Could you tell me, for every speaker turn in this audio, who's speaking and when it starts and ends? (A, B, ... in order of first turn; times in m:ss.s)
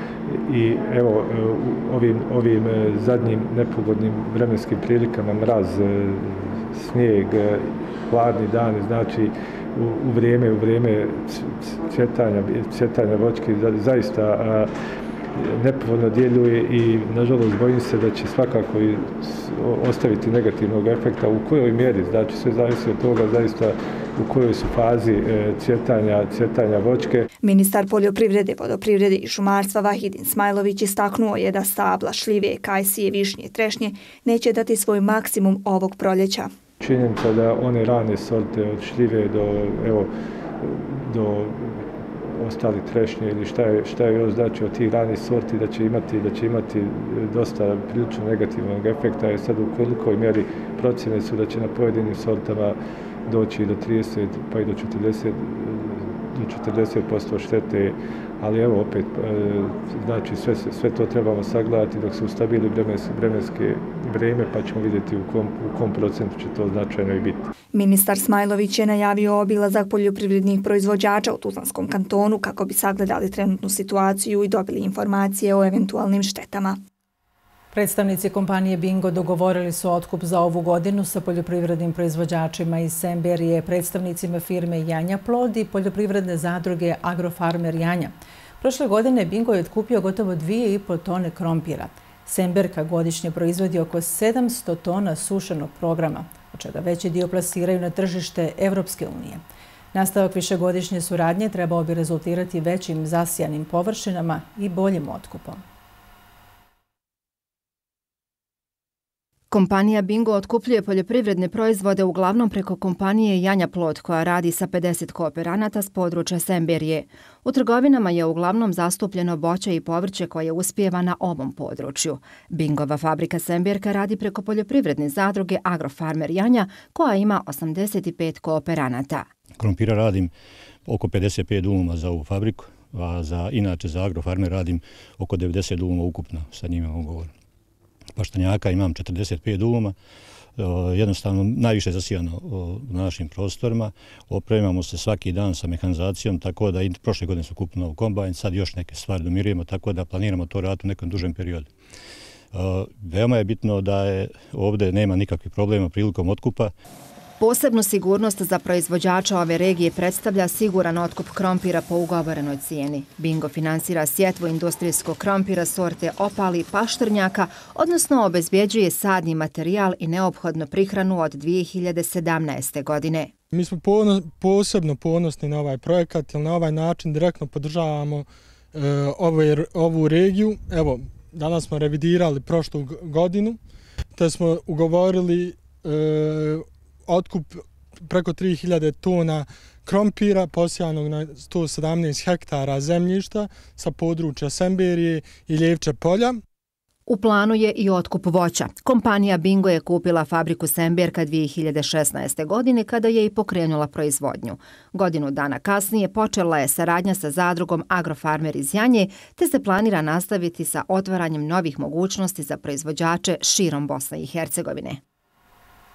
0:00.3-0:14.7 A
0:15.4-0:27.3 A
0:27.4-0:36.5 B
0:36.8-1:07.5 A
1:07.7-1:16.8 B
1:17.7-1:45.6 C
1:49.5-2:09.3 D
2:09.6-2:10.3 E
2:10.9-2:17.3 E
2:18.2-2:20.0 E
2:20.6-2:31.7 E
2:32.5-2:36.7 E
2:37.4-2:53.3 D
2:53.5-3:03.6 F
3:04.2-3:16.4 F
3:17.1-3:35.0 D